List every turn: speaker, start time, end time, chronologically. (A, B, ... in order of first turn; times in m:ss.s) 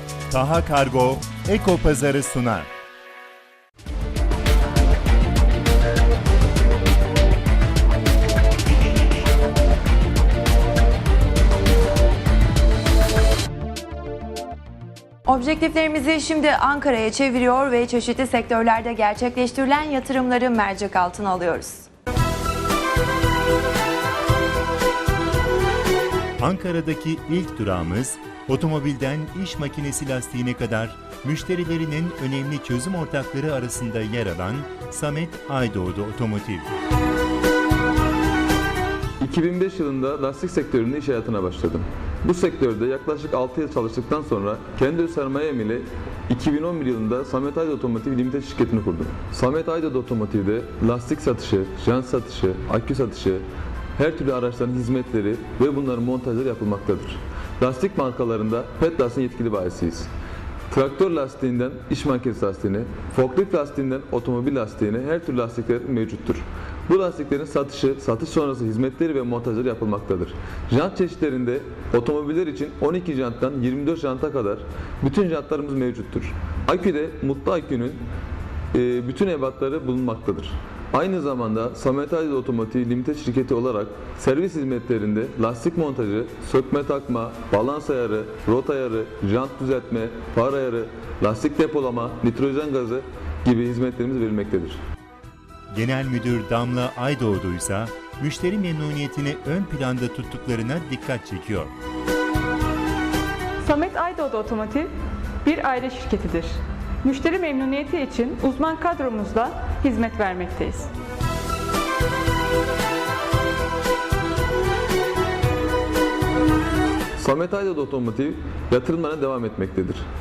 0:00.3-0:02.7 A
0:15.3-0:21.9 B
0:26.4-0:36.7 A
0:39.2-0:53.4 C
0:54.0-1:00.1 C
1:00.7-1:18.0 C
1:18.7-1:34.8 C
1:35.7-1:41.7 A
1:43.6-1:44.9 D
1:45.4-1:50.9 D
1:57.2-2:00.0 C